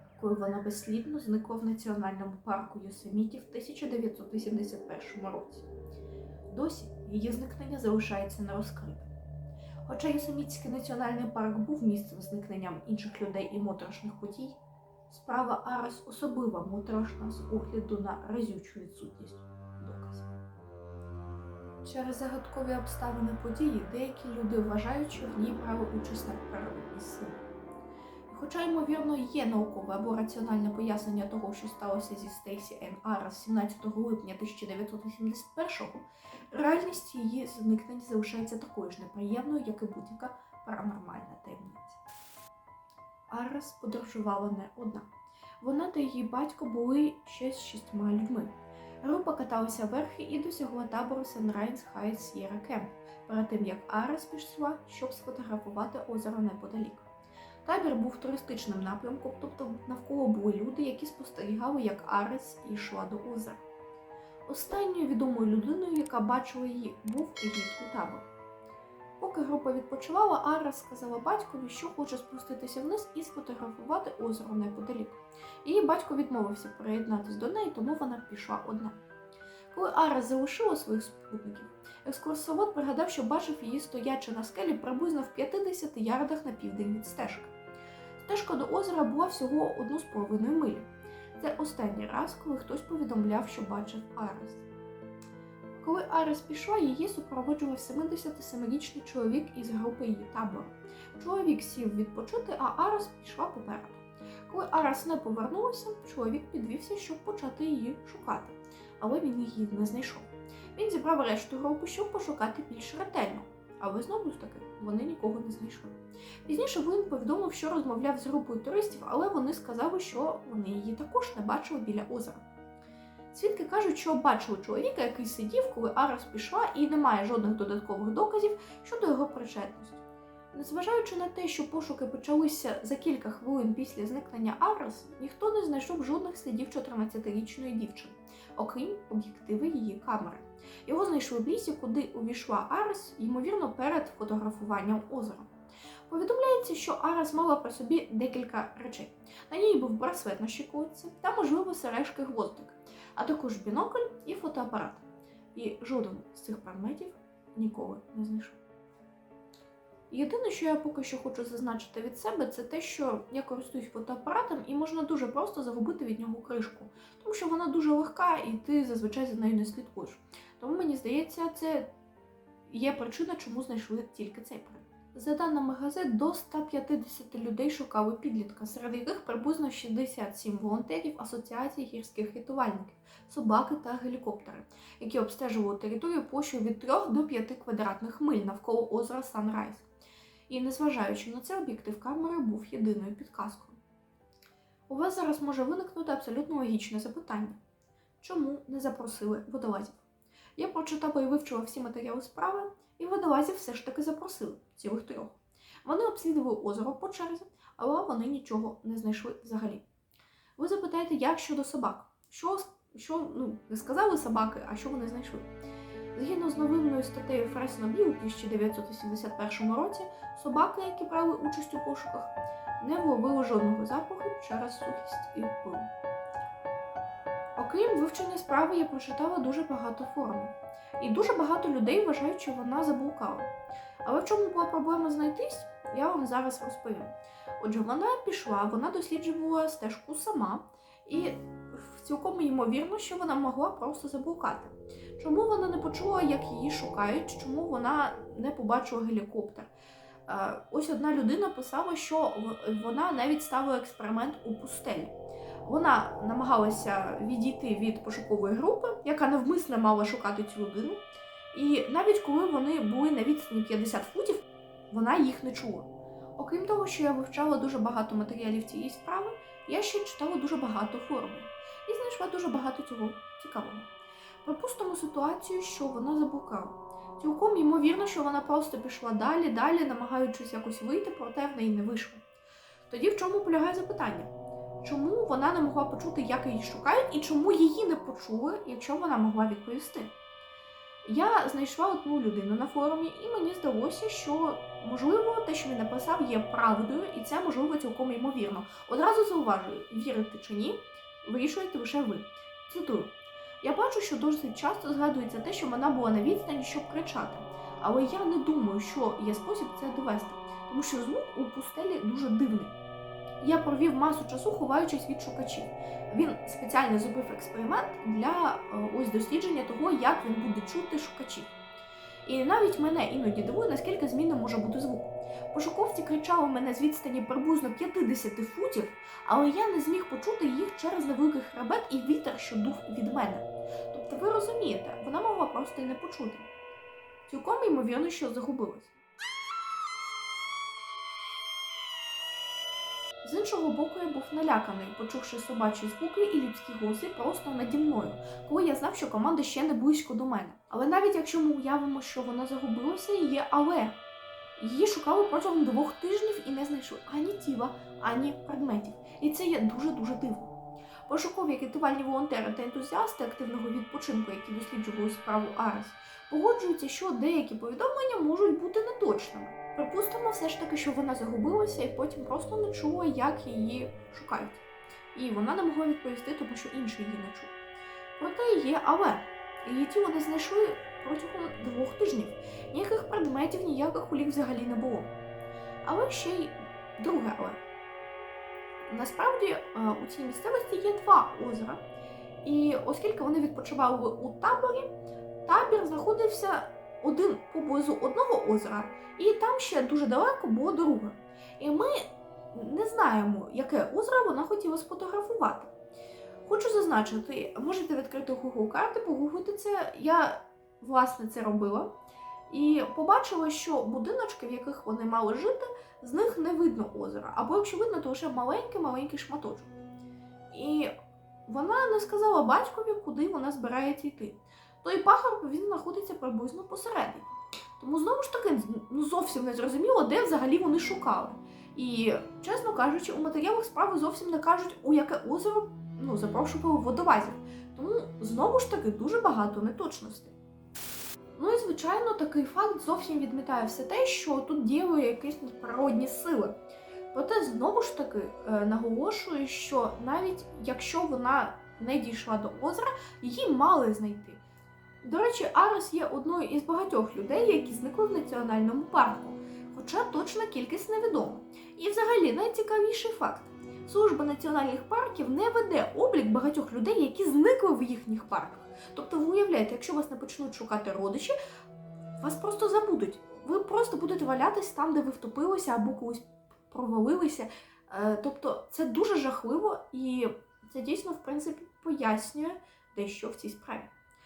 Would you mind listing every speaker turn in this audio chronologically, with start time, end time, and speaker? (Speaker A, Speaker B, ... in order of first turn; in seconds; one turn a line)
Speaker A: 0.2-5.7
Speaker A: 6.5-9.1
Speaker A: 9.9-20.3
Speaker A: 21.8-27.4
Speaker A: 28.3-42.0
Speaker A: 43.3-45.1
Speaker A: 45.6-57.1
Speaker A: 57.6-63.6
Speaker A: 64.5-68.2
Speaker A: 69.2-79.0
Speaker A: 79.7-87.5
Speaker A: 88.2-94.6
Speaker A: 95.8-122.4
Speaker A: 123.3-130.0
Speaker A: 130.5-145.5
Speaker A: 146.1-158.6
Speaker A: 160.1-171.9
Speaker A: 172.7-189.9
Speaker A: 190.5-193.8
Speaker A: 194.9-197.6
Speaker A: 198.2-200.0
Speaker A: 200.6-209.8
Speaker A: 210.6-215.5
Speaker A: 216.2-225.9
Speaker A: 227.6-233.5
Speaker A: 234.0-249.7
Speaker A: 250.3-273.9
Speaker A: 274.4-282.2
Speaker A: 282.9-290.1
Speaker A: 291.0-312.8
Speaker A: 313.4-321.5
Speaker A: 322.3-336.5
Speaker A: 337.3-338.9
Speaker A: 343.2-354.0
Speaker A: 354.6-360.5
Speaker A: 361.1-377.5
Speaker A: 378.2-385.1
Speaker A: 385.9-387.6
Speaker A: 388.9-391.8
Speaker A: 392.4-394.9
Speaker A: 395.5-405.7
Speaker A: 406.4-412.0
Speaker A: 412.5-419.8
Speaker A: 420.5-420.9
Speaker A: 421.5-440.4
Speaker A: 441.4-446.6
Speaker A: 447.1-454.4
Speaker A: 455.0-471.4
Speaker A: 472.2-483.9